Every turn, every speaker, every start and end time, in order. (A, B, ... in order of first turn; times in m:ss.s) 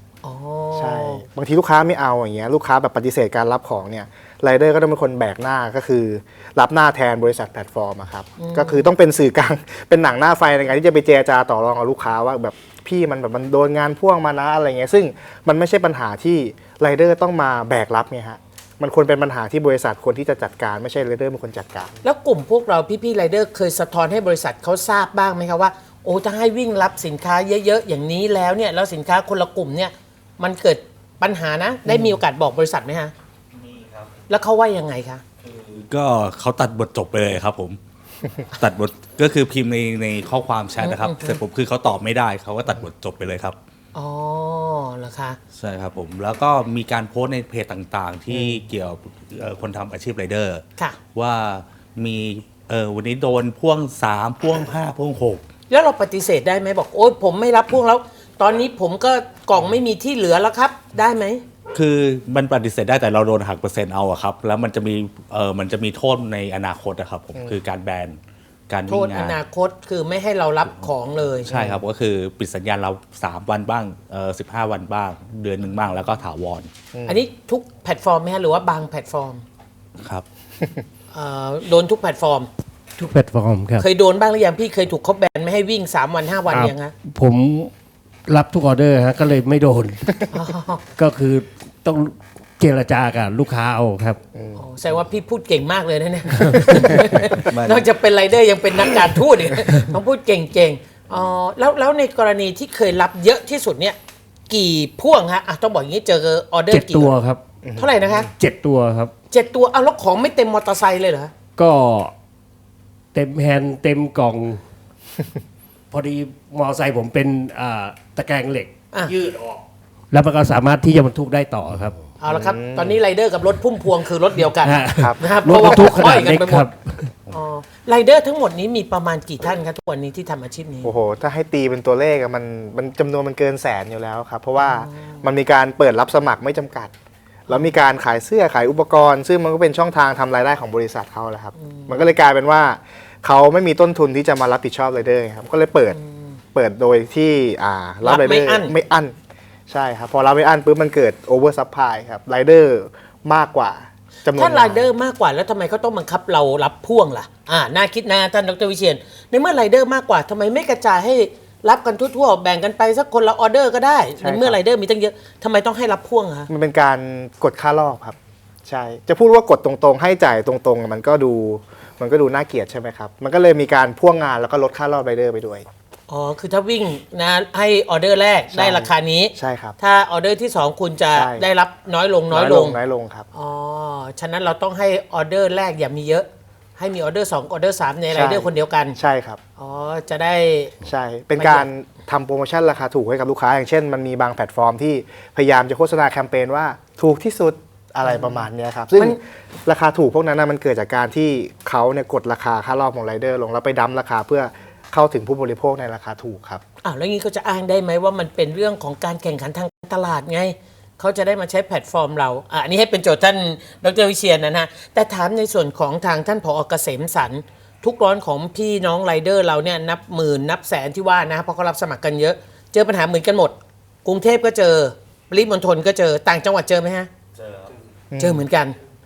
0:00.2-0:01.2 A
0:00.8-0:21.9 B
0:08.4-0:08.9 A
0:22.0-0:33.1 A
0:33.6-0:34.1 C
0:34.3-0:35.2 A
0:35.4-0:37.8 C
0:38.5-0:43.6 C
0:40.8-0:41.4 A
0:43.9-0:45.4 A
0:45.5-0:55.4 C
0:48.3-0:48.6 B
0:55.7-1:01.4 A
1:01.7-1:09.4 C
1:08.9-1:11.5 A
1:11.4-1:16.7 C
1:11.5-1:11.8 B
1:16.9-1:17.2 B
1:17.0-1:19.4 A
1:20.0-1:20.2 C
1:21.1-1:22.5 A
1:23.0-1:23.8 D
1:23.8-1:26.9 A
1:26.5-1:27.7 D
1:28.3-1:30.1 D
1:30.3-1:30.8 A
1:30.9-1:34.2 D
1:34.5-1:44.0 A
1:36.5-1:37.0 D
1:37.5-1:37.9 C
1:44.5-1:47.1 A
1:46.7-1:47.4 D
1:47.6-1:48.2 B
1:47.8-1:48.3 A
1:48.4-1:49.1 D
1:49.3-1:51.3 A
1:51.6-1:52.1 D
1:53.1-1:54.6 D
1:55.9-2:02.0 D
2:02.2-2:06.6 A
2:02.3-2:03.0 B
2:04.6-2:07.1 D
2:05.0-2:06.3 B
2:07.3-2:10.9 A
2:10.8-2:16.9 B
2:14.6-2:15.2 A
2:17.5-2:26.0 B
2:21.6-2:22.0 A
2:25.9-2:26.2 A
2:26.5-2:29.1 B
2:28.0-2:28.7 A
2:29.7-2:34.9 B
2:34.3-2:46.5 A
2:44.2-2:44.6 B
2:46.5-2:55.6 B
2:56.1-3:02.8 A
2:58.5-2:59.8 B
3:01.1-3:01.4 B
3:02.3-3:03.2 B
3:03.3-3:06.3 A
3:06.8-3:09.0 A
3:08.1-3:09.4 B
3:09.6-3:10.8 A
3:10.8-3:26.6 B
3:11.4-3:11.7 A
3:18.0-3:18.4 A
3:26.8-3:47.1 A
3:48.1-3:48.4 B
3:48.2-3:48.8 A